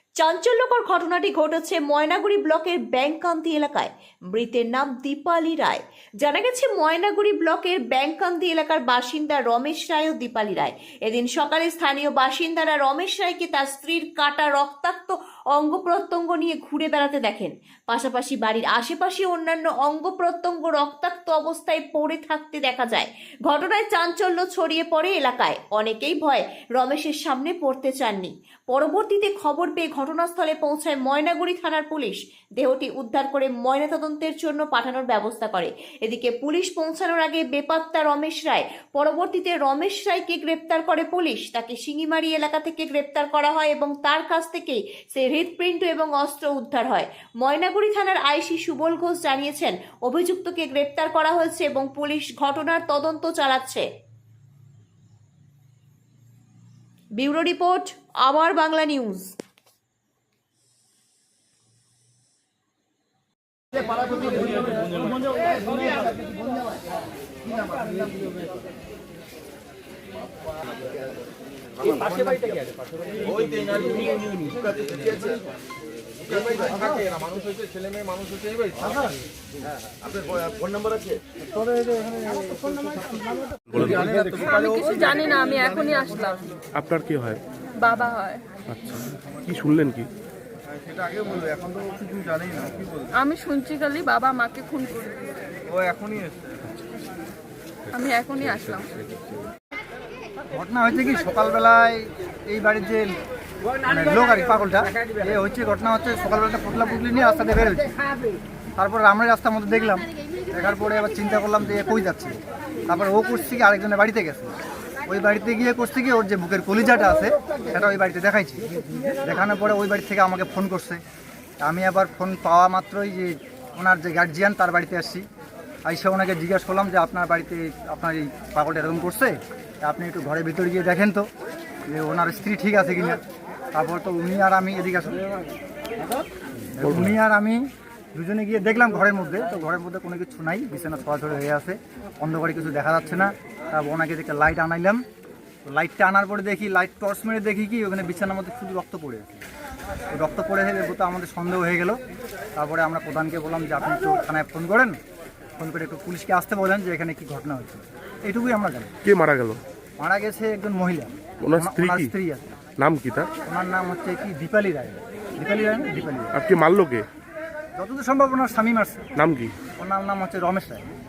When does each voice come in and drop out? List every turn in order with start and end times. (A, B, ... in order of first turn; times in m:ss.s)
0:00.2-0:53.9 A
0:57.2-0:59.3 A
1:11.8-1:12.5 B
1:13.2-1:15.4 B
1:16.3-1:18.8 B
1:23.7-1:24.0 C
1:23.7-1:24.7 B
1:24.4-1:26.5 D
1:26.7-1:27.4 C
1:27.8-1:28.4 D
1:28.7-1:30.1 C
1:30.9-1:33.1 B
1:33.1-1:35.4 D
1:35.7-1:36.6 B
1:37.9-1:39.0 D
1:40.5-1:43.2 E
1:43.8-1:47.9 E
1:48.8-1:52.4 E
1:52.9-1:54.5 E
1:55.1-1:58.6 E
1:59.2-2:01.0 E
2:01.6-2:05.2 E
2:05.8-2:11.2 E
2:11.9-2:13.2 E
2:13.7-2:15.2 E
2:16.8-2:17.6 E
2:16.8-2:17.2 C
2:18.1-2:25.0 E
2:25.7-2:29.4 E
2:30.1-2:32.0 E
2:32.6-2:35.0 E
2:35.6-2:38.9 E
2:39.0-2:39.6 C
2:40.0-2:42.4 E
2:41.4-2:42.1 C
2:42.8-2:43.3 C
2:43.4-2:46.3 E
2:46.3-2:47.1 C
2:47.8-2:49.1 E
2:49.2-2:49.5 C
2:49.8-2:50.8 E